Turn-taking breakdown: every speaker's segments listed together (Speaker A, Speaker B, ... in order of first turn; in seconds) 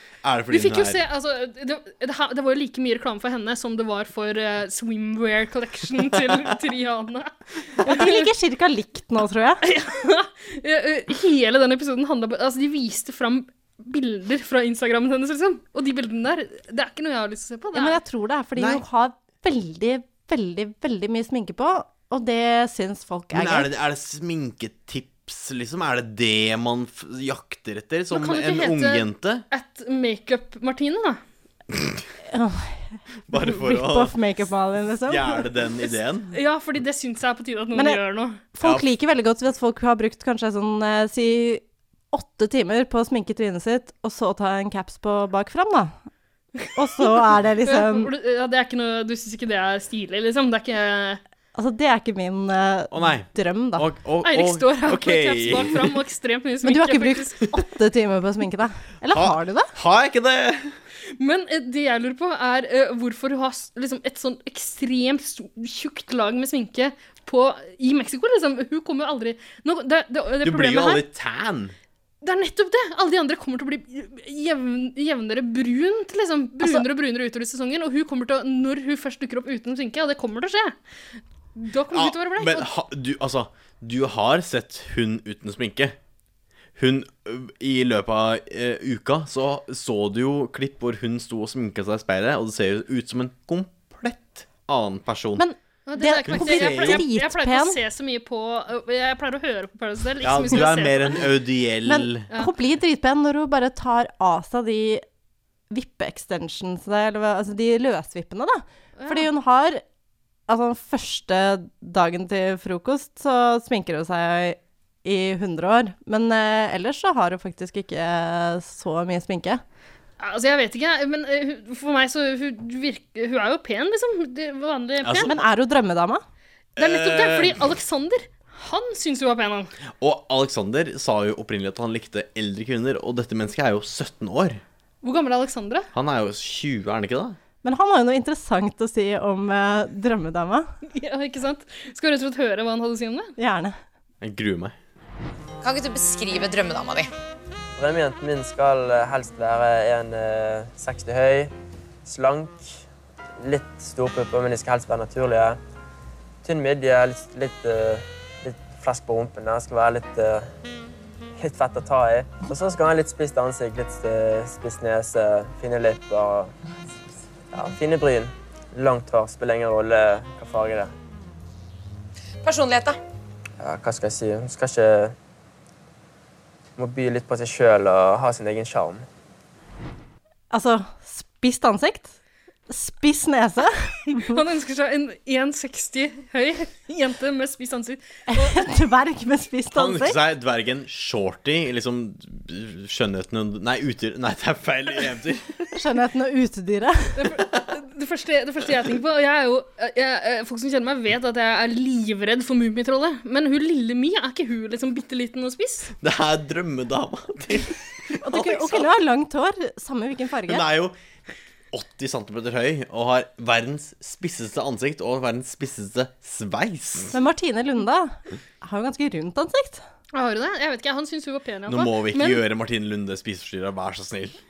Speaker A: 0.2-1.0, 18.6-18.8, 23.3-29.4, 33.3-34.2, 35.0-36.3, 52.9-56.0, 59.1-60.7, 70.4-71.7, 81.9-85.9, 86.8-95.4, 96.2-97.0, 100.2-102.3, 125.0-125.3, 126.8-127.7, 130.0-134.6, 135.9-137.4, 144.2-144.7, 189.7-195.6, 206.0-208.8, 210.4-210.9, 211.7-217.1, 221.7-224.4
Speaker B: 0.5-8.3, 9.6-18.0, 28.1-31.2, 36.3-38.4, 47.6-51.2, 54.2-57.4, 61.1-71.0, 72.2-80.8, 81.5-82.7, 95.9-101.3, 109.0-109.3, 120.2-125.3, 126.8-129.7, 135.0-135.9, 140.9-143.3, 184.1-188.6, 197.2-205.9, 220.1-222.4
Speaker C: 7.8-9.6, 17.7-23.7, 32.3-35.4, 37.7-38.0, 38.5-45.9, 46.7-48.1, 51.5-53.9, 56.6-59.7, 95.4-97.8, 101.8-105.0, 105.7-109.8, 110.5-119.6, 125.2-126.2, 137.6-140.7, 143.4-143.7, 180.5-182.2, 182.7-184.4, 188.3-190.2, 195.7-197.2, 208.2-210.6, 217.1-219.8
Speaker D: 145.6-147.1, 172.4-173.0
Speaker E: 147.8-151.5, 152.0-152.8, 153.4-155.6, 156.4-160.5, 161.4-166.5, 167.5-170.9, 173.6-175.1, 176.8-179.0